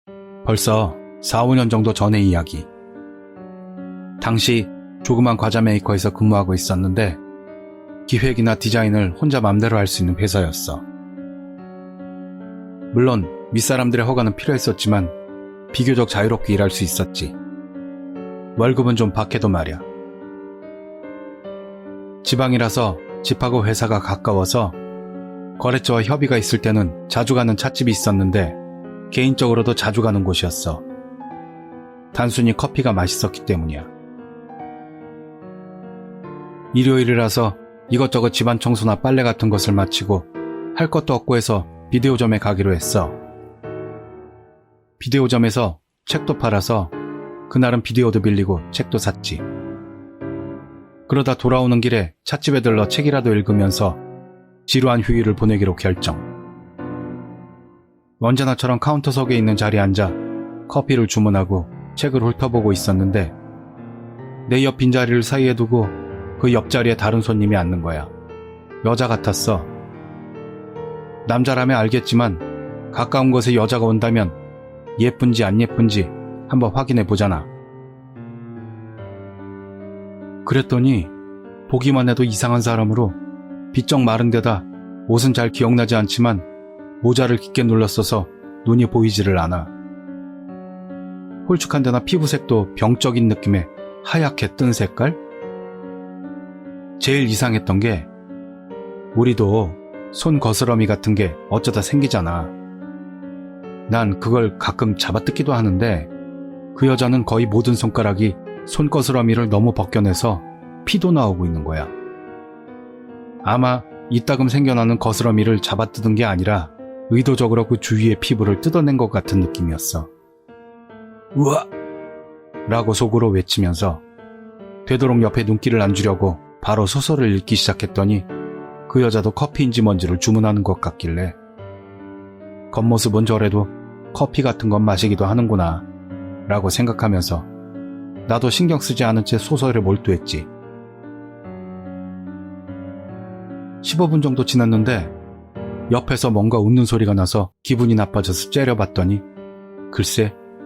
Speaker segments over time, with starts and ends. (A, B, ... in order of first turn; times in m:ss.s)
0:00.4-0:02.7 A
0:04.2-0:07.2 A
0:08.1-0:10.8 A
0:12.9-0:15.1 A
0:15.7-0:17.4 A
0:18.6-0:19.8 A
0:22.2-0:24.8 A
0:25.6-0:28.6 A
0:29.1-0:30.8 A
0:32.1-0:33.9 A
0:36.7-0:43.2 A
0:45.0-0:46.9 A
0:47.5-0:49.4 A
0:51.1-0:54.0 A
0:54.7-0:56.2 A
0:58.2-1:03.3 A
1:04.4-1:08.1 A
1:08.8-1:09.7 A
1:11.2-1:14.4 A
1:15.0-1:17.5 A
1:20.4-1:21.1 A
1:21.7-1:23.2 A
1:23.7-1:26.4 A
1:27.0-1:29.7 A
1:31.4-1:35.2 A
1:37.0-1:38.1 A
1:39.1-1:42.6 A
1:43.9-1:46.1 A
1:46.7-1:51.9 A
1:53.4-2:00.1 A
2:01.3-2:01.7 A
2:02.6-2:04.0 A
2:04.9-2:08.3 A
2:08.9-2:11.4 A
2:12.7-2:15.8 A
2:16.5-2:17.5 A
2:18.3-2:20.5 A
2:23.8-2:25.1 A
2:25.9-2:29.2 A
2:29.9-2:30.4 A